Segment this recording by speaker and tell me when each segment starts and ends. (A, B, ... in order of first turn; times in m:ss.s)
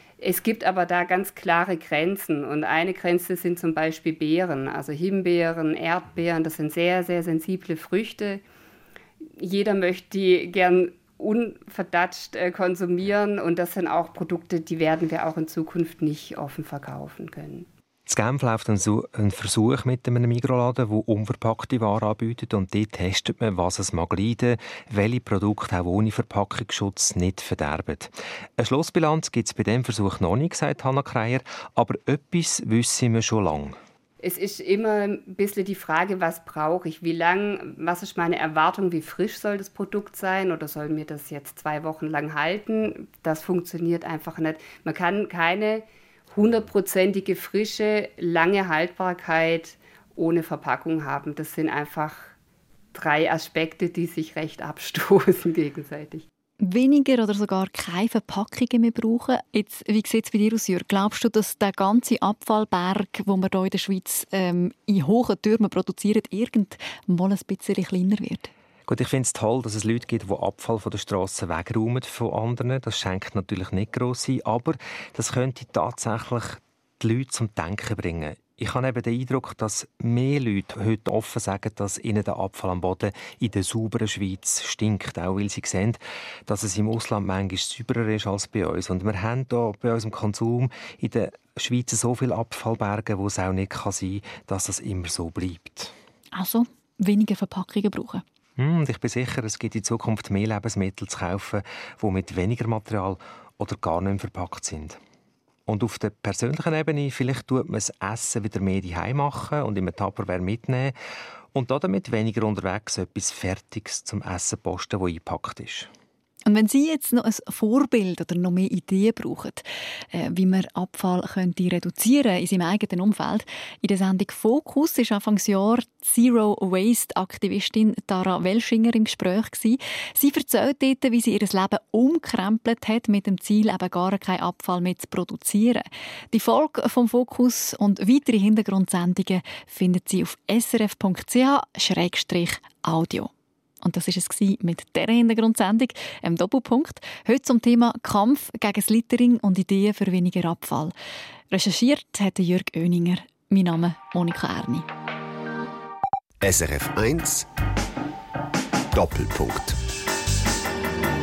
0:00.2-0:08.4 A
0:09.4-0:17.7 A
0:18.1-0:33.8 B
0:34.2-0:52.3 A
0:52.9-0:56.2 A
0:56.6-1:08.5 C
1:08.9-1:35.9 B
1:36.3-1:38.2 C
1:38.6-1:45.0 B
1:45.7-1:51.0 B
1:51.5-1:55.9 B
1:56.4-2:23.3 C
2:23.8-2:30.9 C
2:31.5-2:34.8 C
2:36.4-2:37.4 D
2:38.9-2:39.8 D